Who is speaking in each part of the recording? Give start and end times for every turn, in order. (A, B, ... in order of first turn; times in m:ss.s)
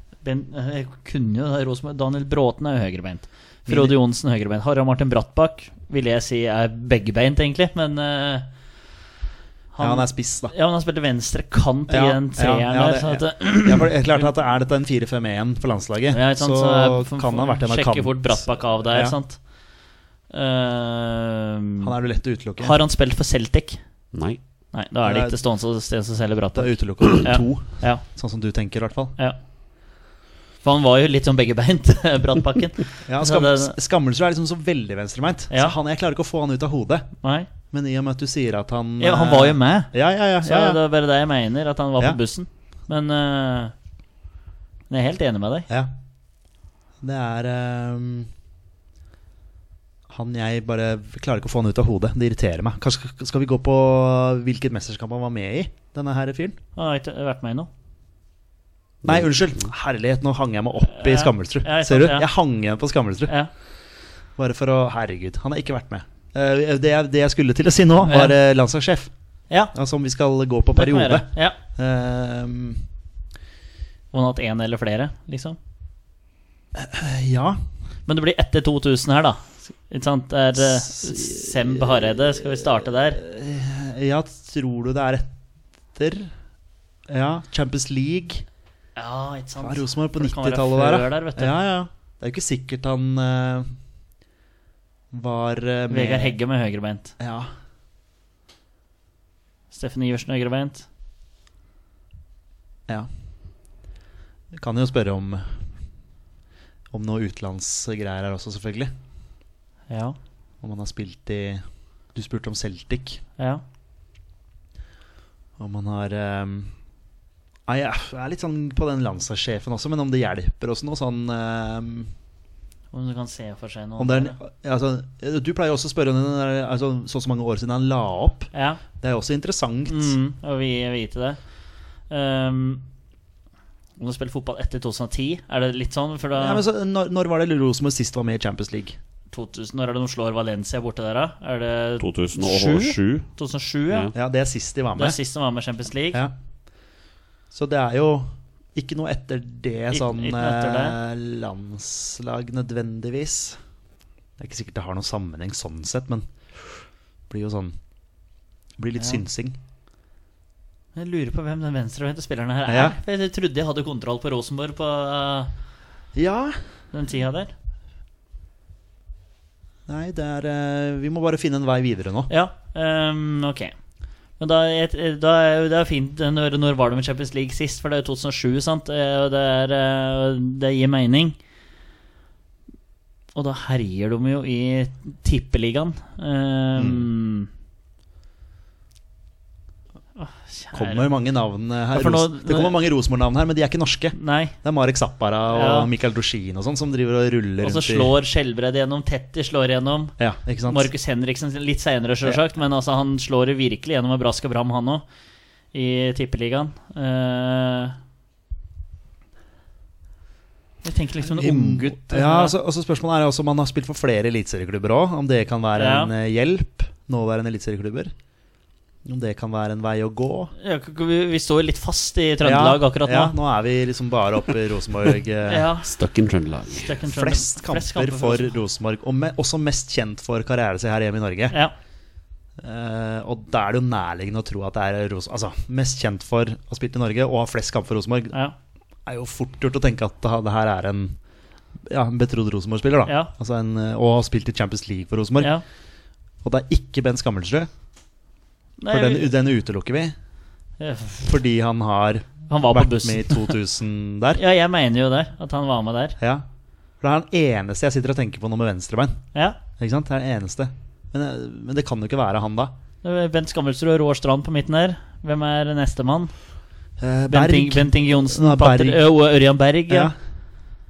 0:00.2-0:08.5 A
0:03.7-0:04.0 B
0:09.7-0:14.2 A
0:09.8-0:10.5 B
0:11.9-0:19.2 B
0:16.1-0:19.5 A
0:20.3-0:22.0 A
0:21.8-0:22.8 B
0:22.6-0:23.8 A
0:24.1-0:24.4 C
0:24.7-0:28.0 A
0:25.0-0:25.4 B
0:26.5-0:29.2 B
0:30.6-0:33.7 A
0:33.0-0:37.2 B
0:37.2-0:37.5 A
0:37.7-0:40.8 B
0:39.0-0:43.7 A
0:44.9-0:45.7 A
0:47.0-0:48.3 B
0:50.1-0:56.6 B
0:56.8-0:57.7 A
0:59.0-1:03.3 B
1:00.9-1:02.3 A
1:04.4-1:09.1 B
1:08.0-1:08.3 A
1:09.7-1:12.8 B
1:10.7-1:11.6 A
1:14.1-1:15.6 A
1:16.8-1:17.6 B
1:18.0-1:23.2 A
1:20.8-1:25.3 B
1:25.9-1:26.3 B
1:27.1-1:28.4 B
1:29.0-1:31.5 A
1:29.6-1:33.7 B
1:35.1-1:36.4 B
1:35.9-1:37.1 A
1:37.2-1:37.5 B
1:39.7-1:40.8 A
1:44.5-1:45.5 B
1:46.9-1:48.9 B
1:49.9-1:50.2 A
1:50.6-1:51.6 B
1:52.1-1:53.2 B
1:53.4-1:53.6 A
1:55.6-1:56.7 B
1:57.7-2:02.1 B
2:02.9-2:04.4 A
2:04.0-2:10.1 B
2:08.5-2:08.8 A
2:09.9-2:11.4 A
2:12.1-2:12.8 A
2:14.0-2:16.6 A
2:16.4-2:19.0 B
2:19.3-2:24.1 A
2:22.0-2:23.2 C
2:24.1-2:25.2 B
2:25.0-2:26.2 A
2:27.5-2:33.6 B
2:29.9-2:31.0 A
2:34.4-2:37.7 B
2:38.8-2:39.6 B
2:40.9-2:45.5 A
2:42.7-2:43.0 B
2:46.1-2:46.6 B
2:46.9-2:47.5 A
2:49.9-2:52.3 B
2:52.3-2:53.7 A
2:54.4-3:01.4 A
3:03.3-3:07.5 A
3:06.8-3:07.0 B
3:10.2-3:11.1 A
3:10.7-3:18.1 B
3:11.9-3:12.7 A
3:14.1-3:14.5 A
3:15.5-3:15.9 A
3:17.6-3:20.1 A
3:20.2-3:20.9 B
3:20.7-3:25.0 A
3:25.7-3:28.0 A
3:30.8-3:32.5 A
3:31.2-3:38.1 B
3:35.8-3:36.1 A
3:39.0-3:40.5 B
3:40.6-3:43.3 A
3:42.4-3:45.7 B
3:45.5-3:45.9 A
3:45.8-3:46.9 C
3:46.7-3:48.6 A
3:47.1-3:51.6 B
3:52.6-3:58.4 B
3:59.0-4:01.2 B
4:01.8-4:05.5 B
4:03.0-4:03.3 A
4:05.4-4:05.6 A
4:06.4-4:07.7 B
4:08.8-4:09.3 A
4:08.9-4:10.1 B
4:10.8-4:11.3 A
4:11.2-4:14.4 B
4:12.5-4:13.5 A
4:14.4-4:16.2 A
4:16.2-4:16.4 B
4:17.0-4:19.2 B
4:19.8-4:22.7 B
4:23.0-4:26.3 A
4:27.0-4:29.0 B
4:27.3-4:30.1 A
4:29.9-4:30.1 B